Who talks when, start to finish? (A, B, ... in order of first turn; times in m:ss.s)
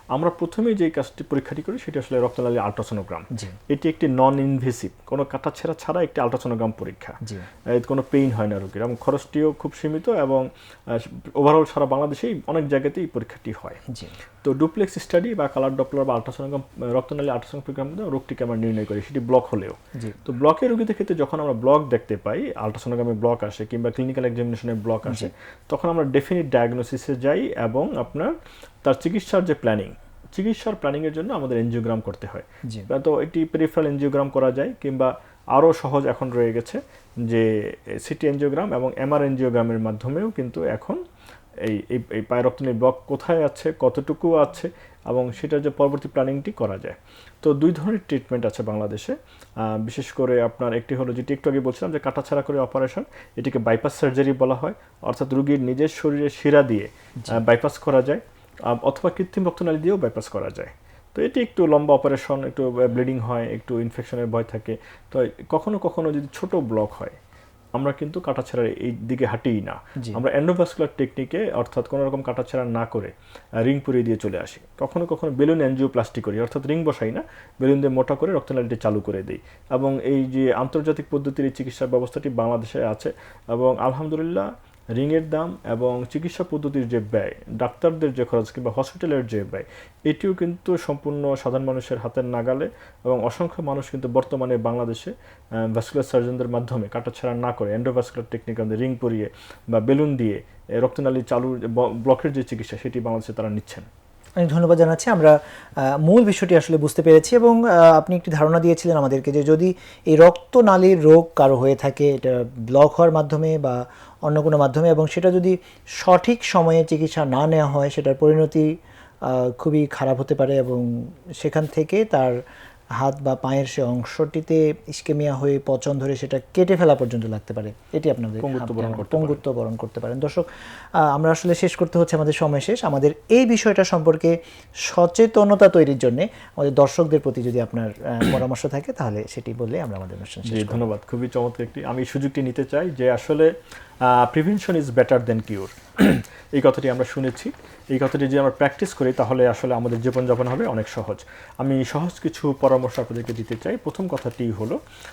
0:00.1-0:07.2 A
0:07.7-0:13.8 A
0:14.4-0:41.0 A
0:25.0-0:25.3 B
0:41.6-1:07.2 A
1:07.7-1:13.1 A
1:13.6-1:43.9 A
1:44.4-1:45.4 B
1:46.0-1:58.7 B
1:59.3-2:00.9 B
2:01.4-2:02.4 B
2:03.0-2:10.4 B
2:08.4-2:09.4 A
2:11.1-2:20.8 B
2:20.4-2:34.8 A